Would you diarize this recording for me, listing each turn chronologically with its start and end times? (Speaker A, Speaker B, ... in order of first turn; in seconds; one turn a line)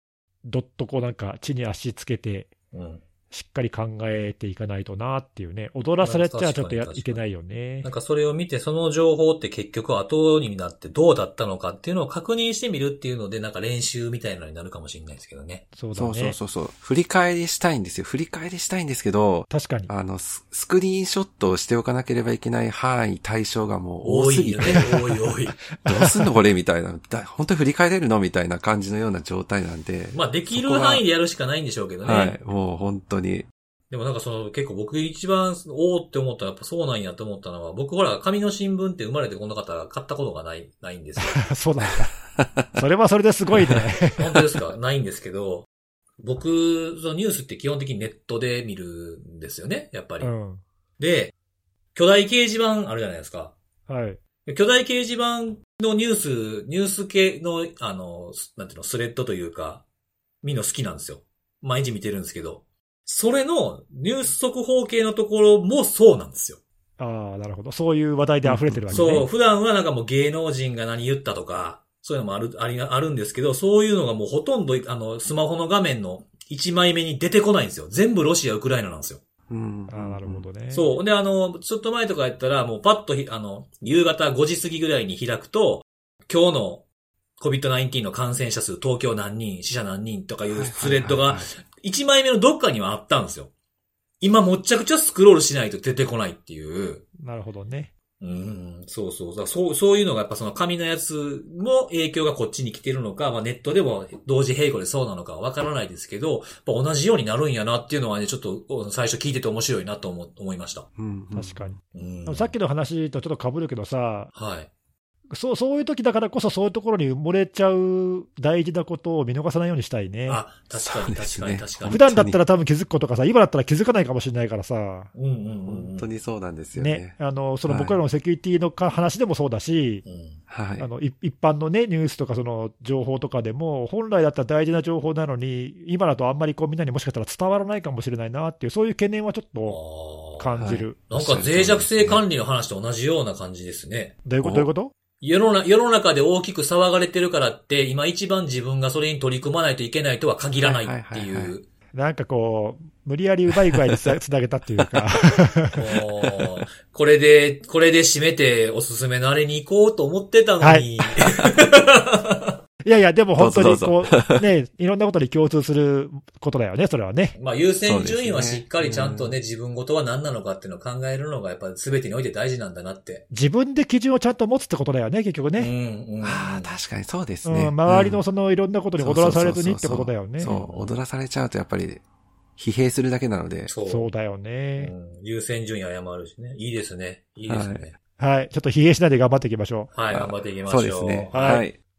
Speaker A: 0.5-2.5
Speaker B: 2.7-3.0
Speaker A: 3.3-7.9
Speaker B: 6.0-7.2
Speaker B: 7.8-15.7
Speaker A: 15.8-16.4
Speaker C: 15.9-24.9
Speaker A: 19.5-19.9
Speaker B: 24.0-25.6
Speaker A: 25.9-26.3
Speaker C: 25.9-31.0
Speaker B: 30.1-32.4
Speaker C: 32.0-33.5
Speaker B: 33.9-41.5
Speaker A: 41.2-42.1
Speaker C: 42.4-42.8
Speaker A: 42.8-44.4
Speaker C: 43.5-43.8
Speaker B: 44.2-45.7
Speaker B: 46.2-50.3
Speaker A: 50.2-50.6
Speaker B: 51.0-51.3
Speaker B: 52.0-53.5
Speaker A: 53.9-54.2
Speaker B: 54.5-59.8
Speaker B: 60.4-66.6
Speaker A: 67.0-69.3
Speaker C: 68.4-69.2
Speaker B: 68.9-79.2
Speaker C: 79.5-80.5
Speaker A: 79.9-80.9
Speaker B: 80.7-86.8
Speaker B: 87.4-93.5
Speaker C: 90.5-91.5
Speaker B: 94.2-97.0
Speaker A: 97.2-97.9
Speaker B: 98.2-110.9
Speaker C: 111.0-111.8
Speaker A: 111.3-114.3
Speaker B: 111.9-112.5
Speaker B: 114.3-114.7
Speaker A: 115.3-120.4
Speaker B: 120.3-122.0
Speaker C: 120.8-122.4
Speaker A: 121.9-125.1
Speaker B: 125.2-126.1
Speaker C: 125.7-127.1
Speaker A: 126.8-130.1
Speaker C: 127.7-128.0
Speaker B: 130.1-130.4
Speaker C: 130.5-130.9
Speaker A: 130.8-139.8
Speaker B: 139.7-144.2
Speaker A: 140.4-141.1
Speaker C: 140.6-142.2
Speaker A: 144.2-144.9
Speaker C: 144.4-144.7
Speaker B: 145.2-151.7
Speaker C: 150.7-151.6
Speaker A: 151.9-155.8
Speaker C: 153.5-154.2
Speaker C: 154.8-155.0
Speaker B: 155.7-162.6
Speaker A: 160.6-160.9
Speaker A: 162.8-167.3
Speaker C: 163.4-164.5
Speaker B: 167.3-173.2
Speaker C: 167.9-169.4
Speaker A: 173.3-175.7
Speaker B: 175.6-176.7
Speaker C: 176.2-178.2
Speaker A: 177.4-180.6
Speaker C: 179.0-182.0
Speaker B: 180.5-180.9
Speaker C: 182.6-183.7
Speaker B: 183.7-184.1
Speaker A: 183.9-184.9
Speaker B: 184.8-187.9
Speaker C: 187.5-187.9
Speaker A: 188.2-189.9
Speaker B: 189.9-191.6
Speaker C: 190.1-191.8
Speaker A: 191.3-191.7